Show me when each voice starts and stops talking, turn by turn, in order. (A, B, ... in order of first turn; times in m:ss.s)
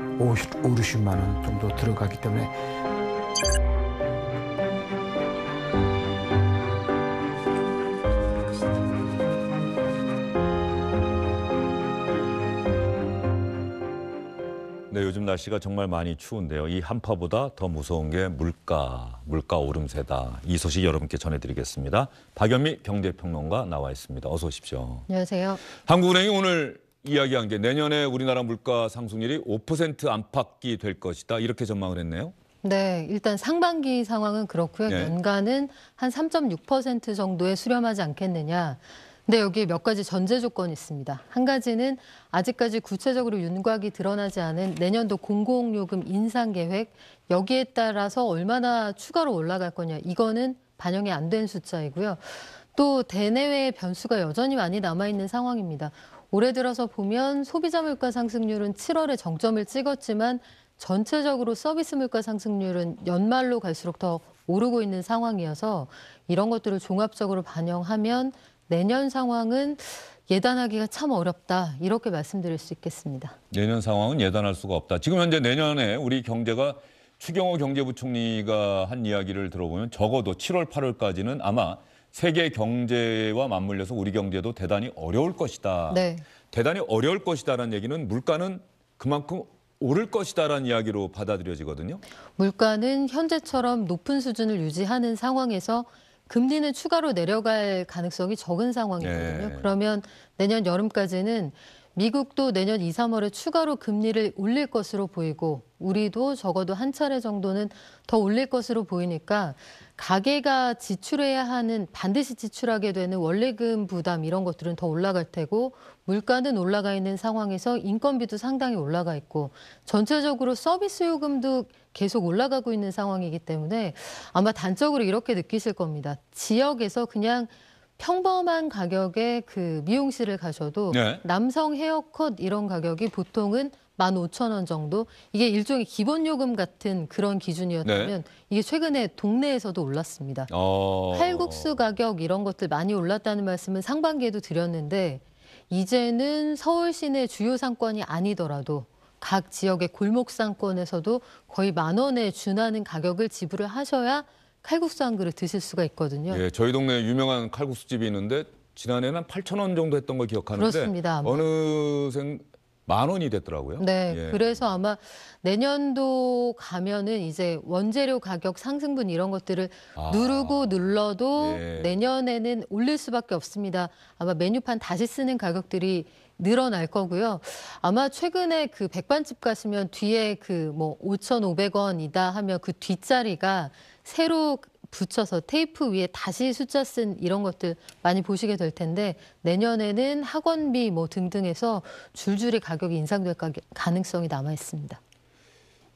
0:00.2-0:02.5 A
0:14.9-0:25.1 B
0:25.1-0:25.6 C
0:25.8-0:32.3 B
0:32.6-1:13.4 C
0:34.9-0:35.2 B
1:13.5-1:32.0 B
1:25.9-1:26.2 C
1:32.4-2:20.5 C
1:39.0-1:39.7 B
2:10.9-2:11.2 B
2:17.8-2:18.2 B
2:20.5-2:21.8 B
2:21.1-2:36.4 C
2:36.3-2:44.6 B
2:40.6-2:41.4 C
2:43.8-3:15.0 C
2:50.0-2:50.8 B
2:51.3-2:52.0 B